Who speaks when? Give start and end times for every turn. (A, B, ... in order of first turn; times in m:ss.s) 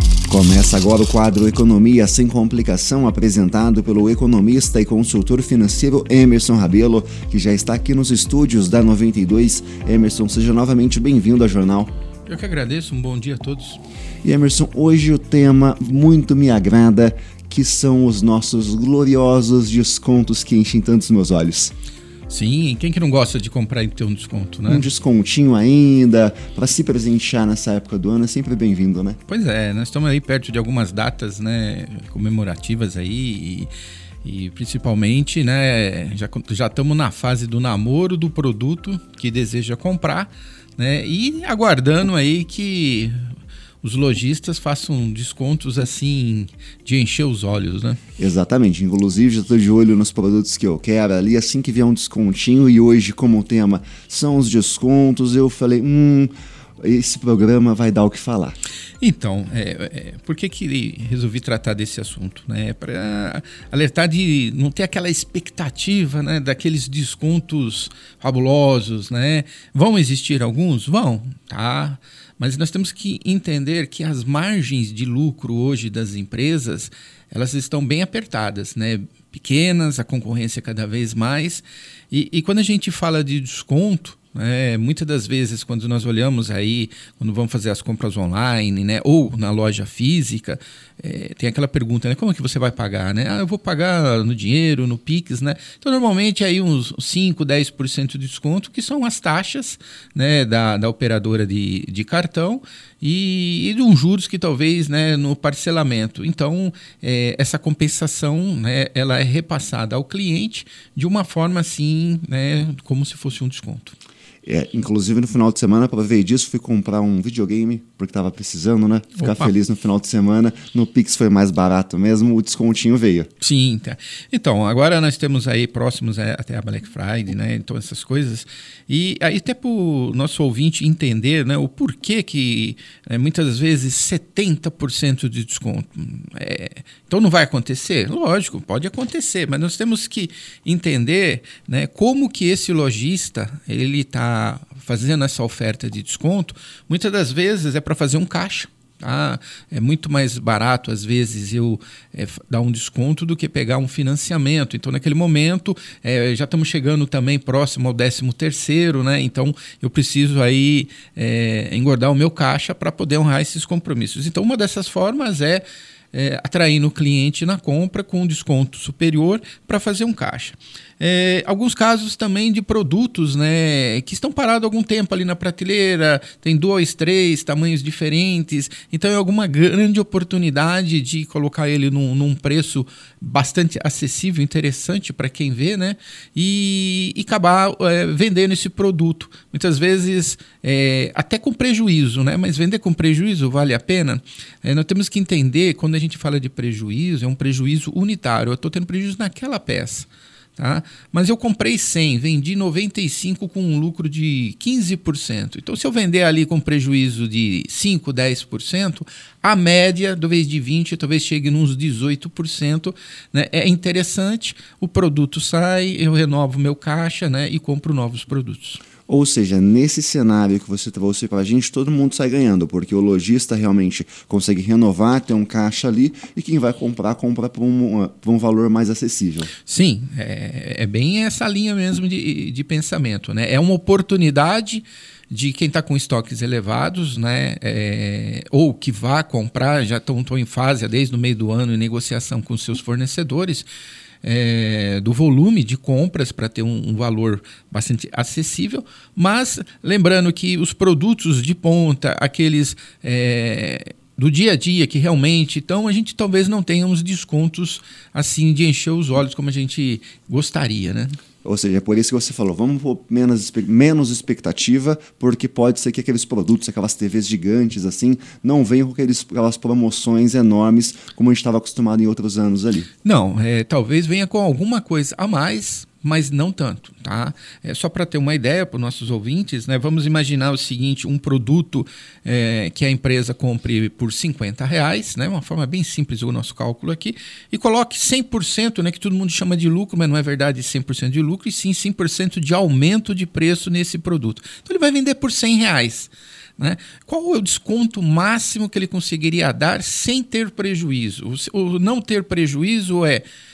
0:00.3-0:11.9 A
0:12.3-0:13.8 B
0:14.2-0:21.7 A
0:22.3-0:24.9 B
0:24.7-0:29.2 A
0:29.3-0:33.7 B
0:34.2-0:43.2 B
0:43.8-0:48.0 B
0:48.2-0:58.6 A
0:59.0-1:54.0 B
1:54.4-2:03.3 A
1:59.2-1:59.5 B
2:03.4-3:38.8 B
3:39.1-3:49.5 A
3:49.6-4:03.7 B
4:04.2-4:21.2 B
4:21.4-4:32.9 A
4:33.0-5:03.2 B